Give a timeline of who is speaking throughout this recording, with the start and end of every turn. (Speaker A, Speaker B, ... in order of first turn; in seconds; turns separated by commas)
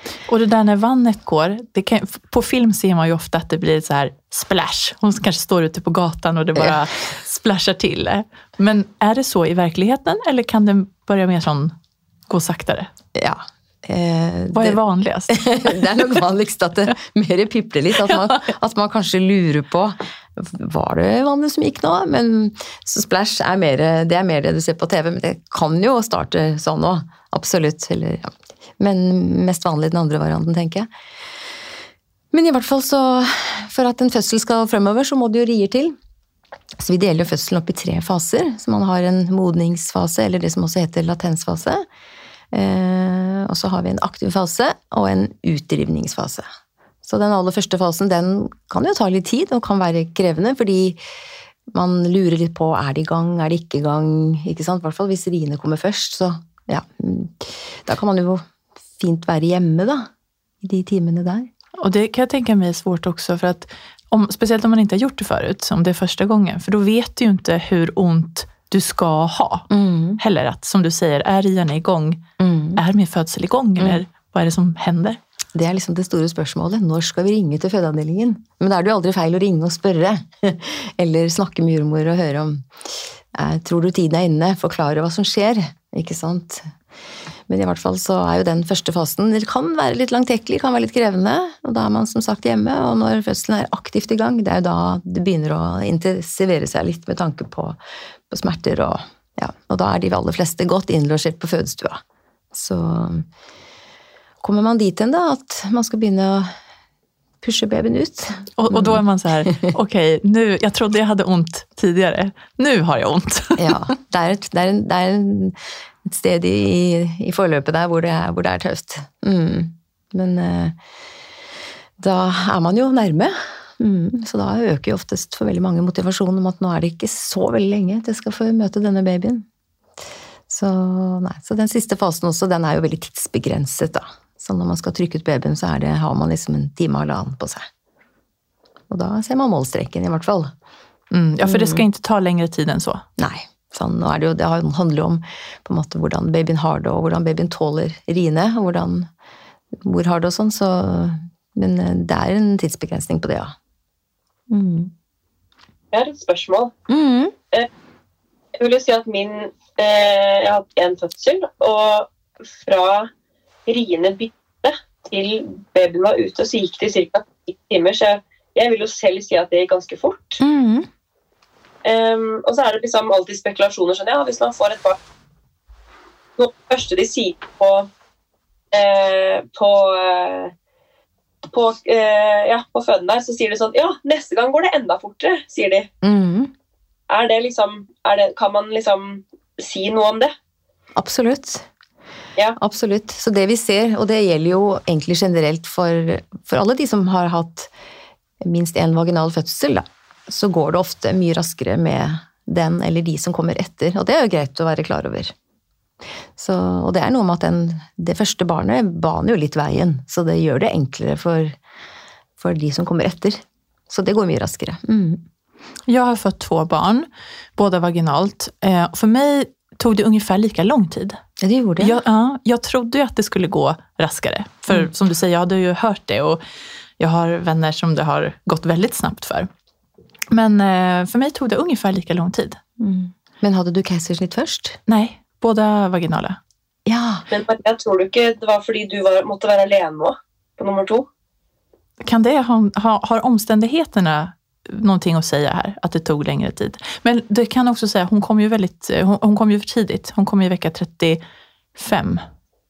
Speaker A: 0.3-11.7, Speaker A: 12.3-12.9, Speaker B: 13.1-30.9, Speaker A: 14.5-15.4, Speaker B: 32.3-35.9, Speaker B: 36.8-41.8, Speaker B: 42.5-46.4, Speaker B: 47.0-51.0, Speaker B: 51.7-58.4, Speaker B: 59.0-60.1, Speaker B: 60.6-61.5, Speaker A: 61.8-69.7, Speaker B: 69.7-70.2, Speaker A: 70.2-72.2, Speaker B: 72.4-72.8, Speaker A: 72.8-75.2, Speaker B: 75.5-82.7, Speaker B: 83.3-86.7, Speaker B: 87.5-97.8, Speaker B: 98.3-102.0, Speaker B: 102.5-103.2, Speaker B: 104.4-106.5, Speaker B: 107.4-109.7, Speaker A: 108.6-113.8, Speaker B: 113.6-120.8, Speaker B: 122.0-129.4, Speaker B: 130.5-137.6, Speaker B: 138.9-140.5, Speaker A: 141.1-143.0, Speaker B: 141.4-141.8, Speaker B: 143.2-149.1, Speaker B: 149.7-153.5, Speaker B: 154.5-154.9, Speaker C: 155.9-156.7, Speaker B: 156.9-157.3, Speaker C: 158.6-163.1, Speaker C: 163.7-170.4, Speaker B: 170.4-170.9, Speaker C: 171.8-175.0, Speaker C: 176.4-177.9, Speaker C: 178.7-180.5, Speaker C: 181.5-185.9, Speaker B: 186.0-186.5, Speaker C: 187.1-190.3, Speaker B: 190.9-191.7, Speaker B: 192.6-197.7, Speaker B: 198.4-205.3, Speaker B: 206.4-211.6, Speaker B: 212.4-215.2, Speaker A: 215.9-221.2, Speaker B: 221.4-222.0, Speaker A: 221.8-226.4, Speaker A: 227.0-229.5, Speaker A: 230.3-232.6, Speaker B: 232.8-234.8, Speaker A: 234.9-236.4, Speaker B: 236.8-237.2, Speaker C: 237.3-241.1, Speaker A: 242.0-251.2, Speaker A: 251.8-252.2